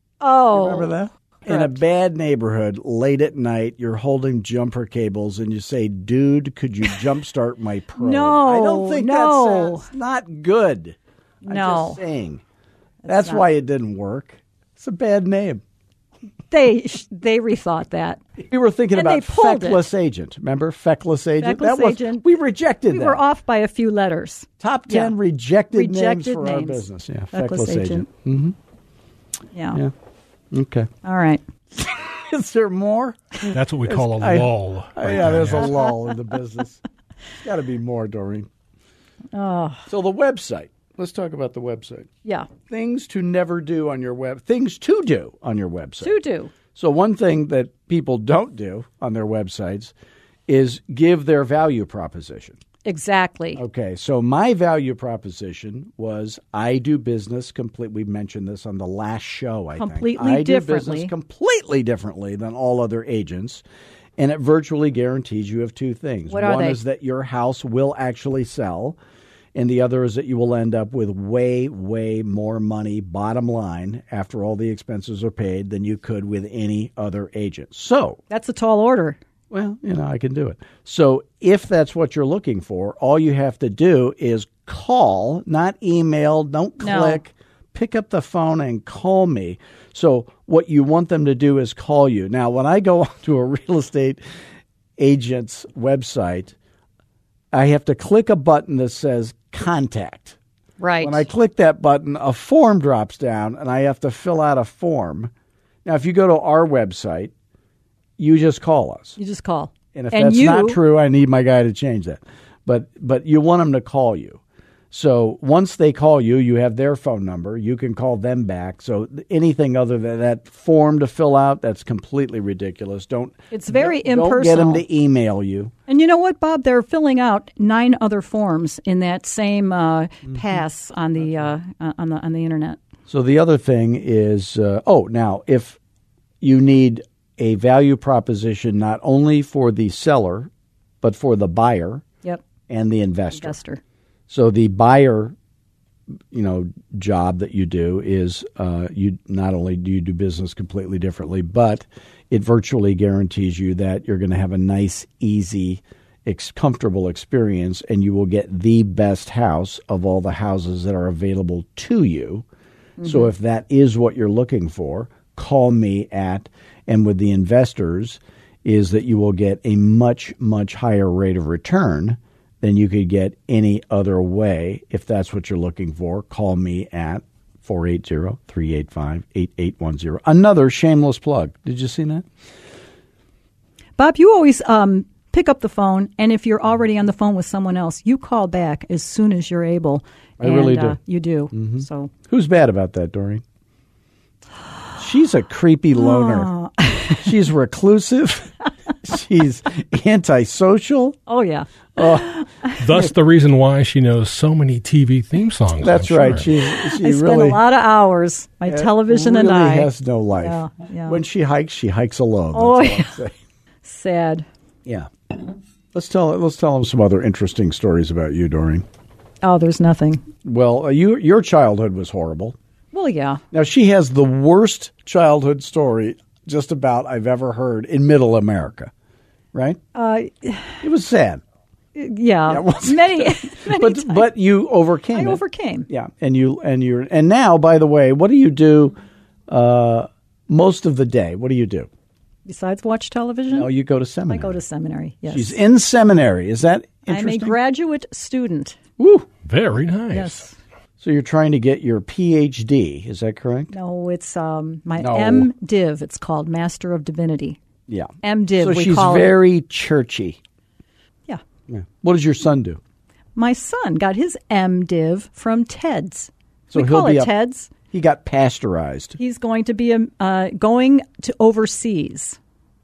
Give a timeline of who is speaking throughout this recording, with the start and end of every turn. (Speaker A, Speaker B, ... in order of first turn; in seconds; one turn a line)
Speaker A: 0.2-0.9
Speaker B: 0.5-12.4
Speaker A: 1.5-1.8
Speaker A: 8.0-9.8
Speaker A: 11.4-12.0
Speaker A: 13.0-13.4
Speaker B: 13.1-15.6
Speaker A: 16.5-18.2
Speaker B: 18.4-23.2
Speaker A: 18.9-19.9
Speaker A: 21.4-22.2
Speaker A: 22.9-25.1
Speaker B: 24.6-28.6
Speaker A: 25.7-28.1
Speaker A: 29.5-29.8
Speaker B: 30.5-30.9
Speaker A: 31.0-31.4
Speaker B: 31.7-36.8
Speaker C: 33.5-35.7
Speaker B: 37.4-38.5
Speaker A: 39.3-39.9
Speaker B: 39.9-42.1
Speaker A: 42.2-42.5
Speaker B: 42.6-46.2
Speaker A: 46.0-46.5
Speaker B: 46.7-49.9
Speaker B: 50.5-52.6
Speaker A: 52.8-53.6
Speaker B: 53.5-63.6
Speaker A: 59.7-61.1
Speaker B: 64.2-69.0
Speaker A: 66.3-66.8
Speaker B: 69.5-78.2
Speaker A: 78.3-79.2
Speaker B: 79.5-94.2
Speaker A: 86.8-87.2
Speaker B: 95.0-96.5
Speaker B: 97.5-100.4
Speaker A: 100.8-101.3
Speaker B: 101.0-105.3
Speaker B: 105.8-107.3
Speaker B: 108.2-109.2
Speaker A: 109.2-110.8
Speaker B: 109.9-114.4
Speaker B: 114.9-125.7
Speaker A: 123.5-124.8
Speaker A: 125.9-132.8
Speaker B: 133.1-135.8
Speaker B: 136.4-140.5
Speaker B: 141.0-142.0
Speaker B: 142.7-143.6
Speaker A: 143.3-143.8
Speaker B: 144.3-145.3
Speaker B: 146.3-162.4
Speaker A: 163.0-163.3
Speaker B: 163.0-182.2
Speaker A: 184.0-192.1
Speaker B: 190.4-191.0
Speaker B: 191.5-193.4
Speaker B: 195.0-196.5
Speaker A: 195.9-197.3
Speaker B: 197.2-201.2
Speaker A: 201.3-203.1
Speaker B: 201.9-202.3
Speaker C: 202.8-206.5
Speaker B: 205.8-207.6
Speaker A: 206.9-211.2
Speaker B: 208.7-213.3
Speaker A: 212.5-213.2
Speaker A: 213.8-214.4
Speaker B: 214.8-218.8
Speaker A: 219.4-220.2
Speaker B: 220.4-222.6
Speaker A: 222.9-223.4
Speaker B: 223.5-228.9
Speaker B: 229.5-229.8
Speaker A: 229.9-230.8
Speaker B: 230.8-231.4
Speaker A: 231.9-234.3
Speaker B: 232.5-241.9
Speaker A: 235.1-235.9
Speaker A: 242.4-243.7
Speaker B: 243.5-244.6
Speaker A: 244.3-245.6
Speaker B: 245.3-247.5
Speaker A: 247.1-248.8
Speaker B: 249.0-249.3
Speaker C: 249.4-250.4
Speaker A: 250.1-250.5
Speaker B: 251.0-253.7
Speaker A: 253.7-257.6
Speaker B: 255.0-255.5
Speaker B: 257.9-260.4
Speaker A: 258.2-259.4
Speaker B: 261.7-262.8
Speaker A: 263.4-267.7
Speaker B: 266.7-267.3
Speaker B: 267.9-269.2
Speaker A: 269.2-272.4